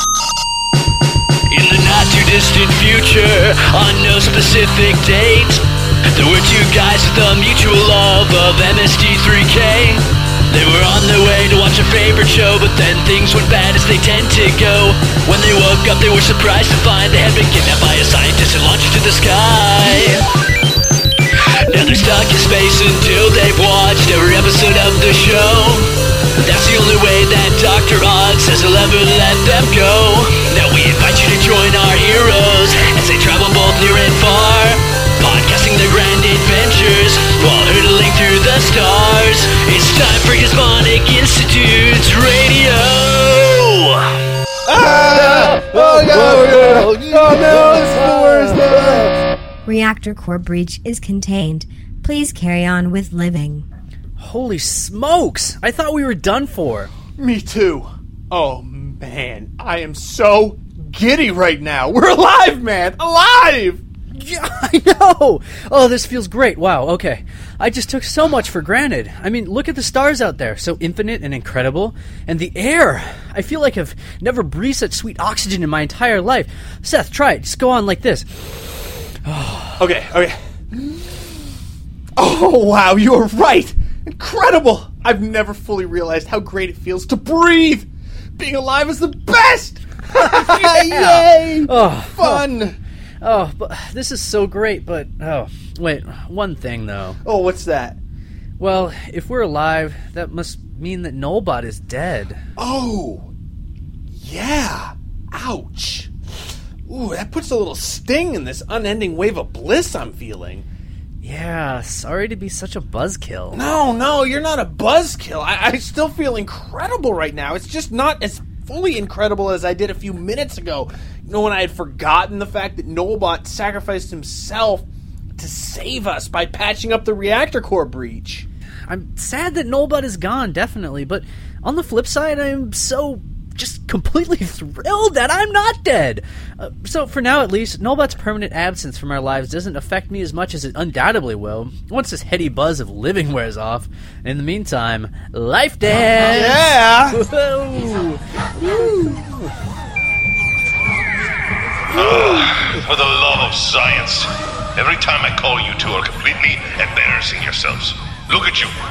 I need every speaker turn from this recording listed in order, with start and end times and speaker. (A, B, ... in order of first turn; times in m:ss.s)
0:01.5-0:20.2 A
0:21.6-0:44.2 A
0:44.6-0:49.2 B
0:45.1-0:48.6 C
0:49.6-0:53.6 D
0:54.2-0:56.9 C
0:57.2-1:03.8 B
1:04.1-1:19.8 C
1:19.8-1:21.1 B
1:22.2-1:32.8 B
1:30.1-1:32.5 C
1:33.2-1:37.2 C
1:37.2-1:38.0 B
1:38.6-1:42.4 C
1:42.6-1:43.3 B
1:44.1-1:46.1 B
1:46.8-1:50.6 B
1:51.2-1:53.6 C
1:53.5-2:04.8 B
2:05.4-2:08.4 B
2:08.9-2:29.4 C
2:26.2-2:27.2 B
2:31.9-2:38.7 E
2:32.0-2:32.4 B